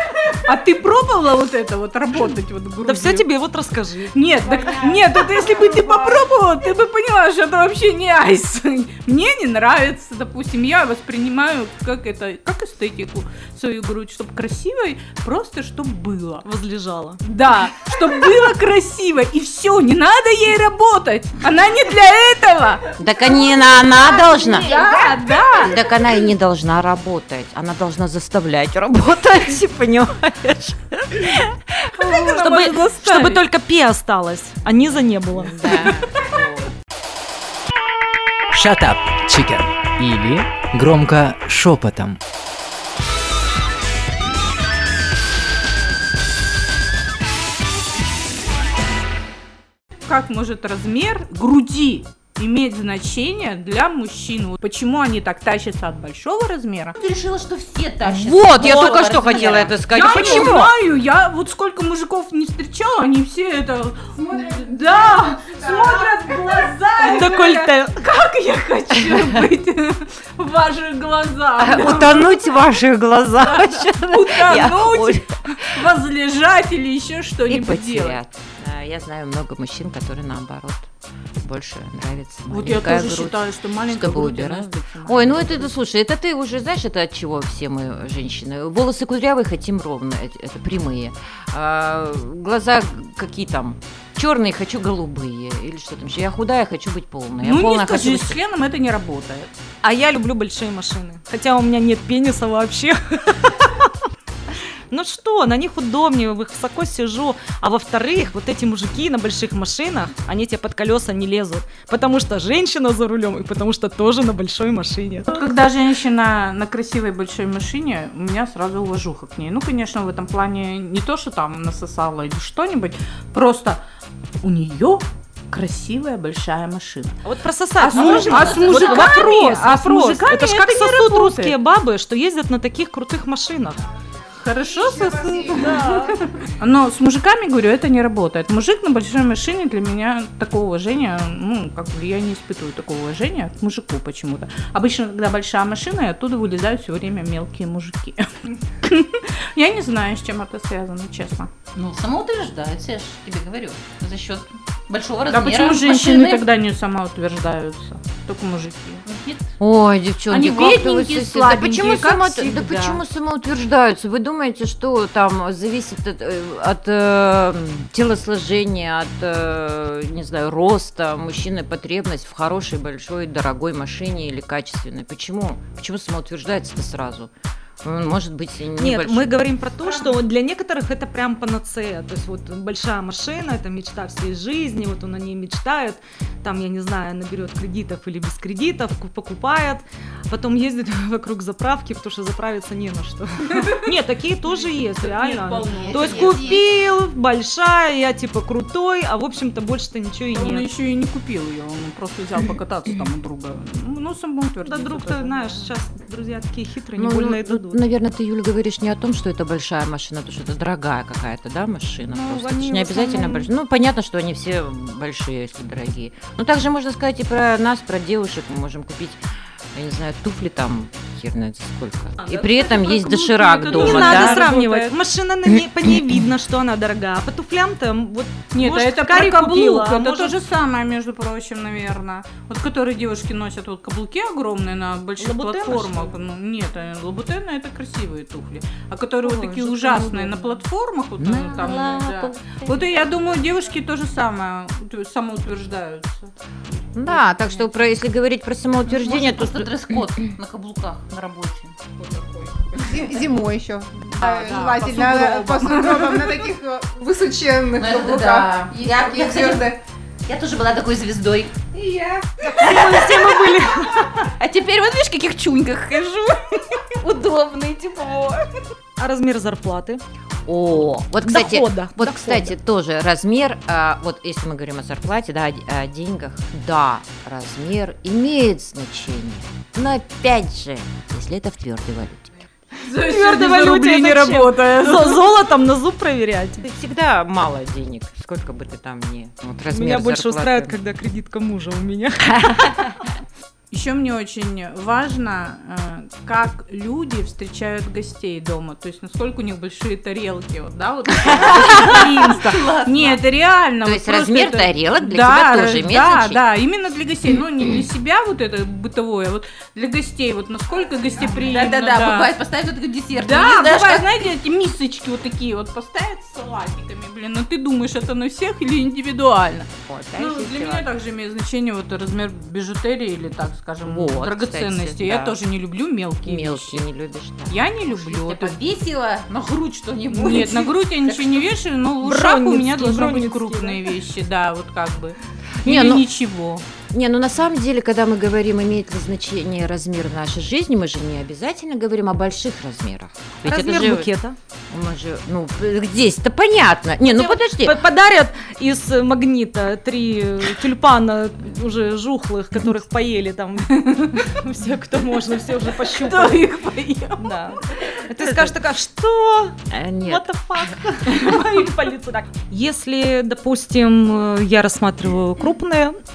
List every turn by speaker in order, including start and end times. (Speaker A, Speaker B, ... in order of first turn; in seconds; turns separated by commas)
Speaker A: 0.3-3.2, Speaker B: 2.8-4.1, Speaker A: 4.1-16.4, Speaker C: 4.5-6.0, Speaker B: 16.4-17.2, Speaker A: 17.2-22.9, Speaker D: 23.0-24.8, Speaker A: 24.2-25.8, Speaker D: 25.6-31.8, Speaker A: 32.0-33.4, Speaker B: 32.3-35.9, Speaker D: 35.3-36.7, Speaker E: 38.5-42.2, Speaker A: 50.0-57.0, Speaker F: 57.0-59.7, Speaker D: 58.0-60.7, Speaker A: 59.9-72.4, Speaker C: 64.2-66.5, Speaker B: 67.0-67.9, Speaker D: 71.6-75.2, Speaker A: 73.4-78.2, Speaker D: 77.5-80.9, Speaker D: 81.4-98.4, Speaker A: 82.5-85.7, Speaker A: 97.4-99.5, Speaker B: 99.8-103.9, Speaker B: 104.9-115.4, Speaker A: 115.3-123.8, Speaker A: 124.4-127.1, Speaker B: 127.2-133.8, Speaker A: 127.8-131.6, Speaker C: 127.9-129.2, Speaker A: 134.4-151.5, Speaker C: 134.6-135.7, Speaker B: 135.5-136.2, Speaker F: 151.7-156.3, Speaker A: 155.3-159.1, Speaker D: 159.6-177.3, Speaker A: 160.3-163.0, Speaker D: 177.8-179.4, Speaker B: 178.8-200.7, Speaker A: 194.4-196.6, Speaker A: 200.3-205.7, Speaker B: 204.6-207.8, Speaker D: 206.9-219.2, Speaker B: 212.1-213.5, Speaker D: 219.7-224.4, Speaker A: 222.2-224.9, Speaker B: 223.7-230.3, Speaker D: 225.5-226.0, Speaker A: 228.5-246.3, Speaker B: 235.2-236.1, Speaker D: 239.4-240.3, Speaker D: 241.2-242.3, Speaker D: 246.9-250.1, Speaker A: 247.0-247.7, Speaker F: 249.1-251.7, Speaker C: 252.7-259.7, Speaker A: 254.2-256.4, Speaker F: 257.9-259.4, Speaker F: 260.3-261.5, Speaker C: 261.7-262.5, Speaker B: 262.4-264.2, Speaker A: 264.6-265.0, Speaker F: 265.2-265.9, Speaker A: 265.8-266.2, Speaker F: 267.1-268.0, Speaker A: 268.1-268.3, Speaker B: 269.0-270.0, Speaker D: 270.4-282.3, Speaker B: 271.2-272.5, Speaker A: 282.8-285.2, Speaker B: 283.0-286.7, Speaker D: 286.6-290.8, Speaker B: 289.7-292.7, Speaker A: 293.7-312.4, Speaker D: 301.3-302.0, Speaker D: 303.8-306.4, Speaker F: 311.5-314.0, Speaker A: 313.1-326.8, Speaker D: 319.9-320.9, Speaker D: 323.8-325.4, Speaker D: 326.2-328.4, Speaker A: 327.5-328.6, Speaker F: 328.4-331.3, Speaker A: 330.1-336.6, Speaker B: 332.0-333.9, Speaker D: 335.6-336.0, Speaker D: 336.9-344.1, Speaker B: 343.4-344.4, Speaker D: 344.7-347.8, Speaker B: 347.1-356.4, Speaker A: 355.8-357.2, Speaker B: 357.2-365.9, Speaker D: 358.2-358.5, Speaker D: 359.7-360.3